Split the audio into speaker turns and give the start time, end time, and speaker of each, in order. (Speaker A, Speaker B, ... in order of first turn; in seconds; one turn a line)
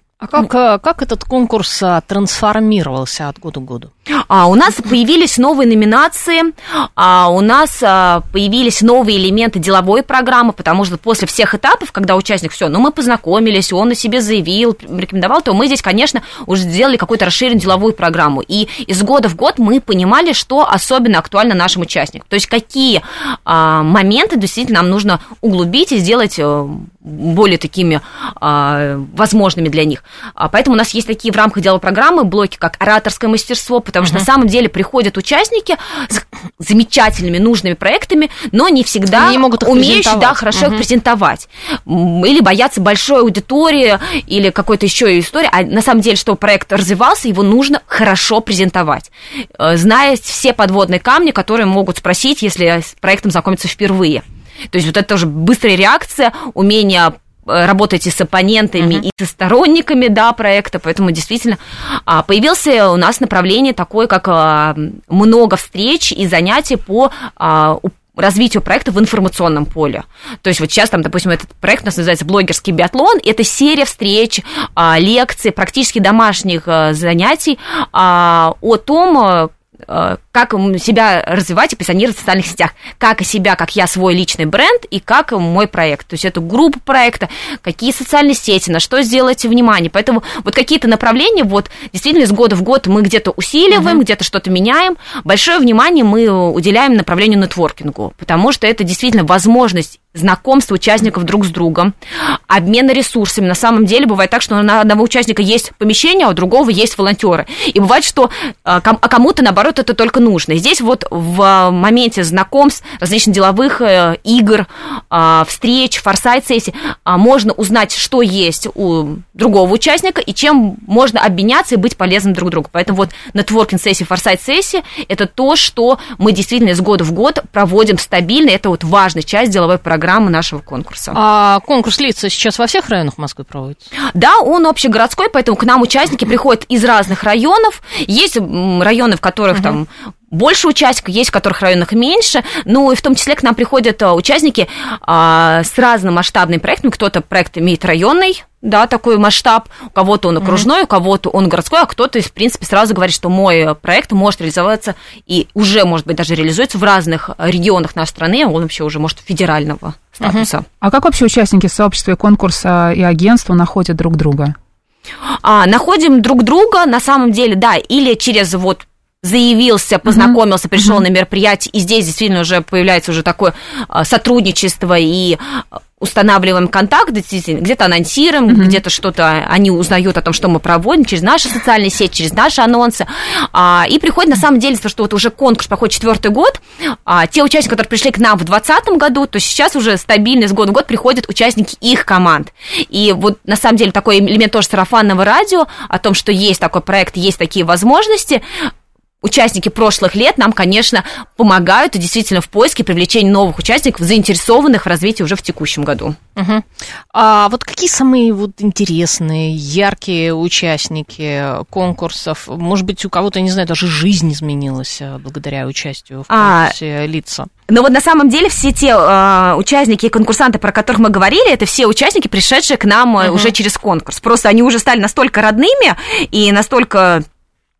Speaker A: 0.2-3.9
Speaker B: 4.1-131.2
Speaker A: 39.1-40.8
Speaker A: 93.7-94.0
Speaker A: 131.1-133.9
Speaker B: 134.1-160.6
Speaker A: 160.2-160.5
Speaker C: 160.8-164.5
Speaker B: 165.4-198.4
Speaker C: 178.5-178.8
Speaker B: 199.2-206.2
Speaker A: 206.3-217.5
Speaker B: 216.3-216.7
Speaker B: 217.7-227.2
Speaker A: 223.2-223.5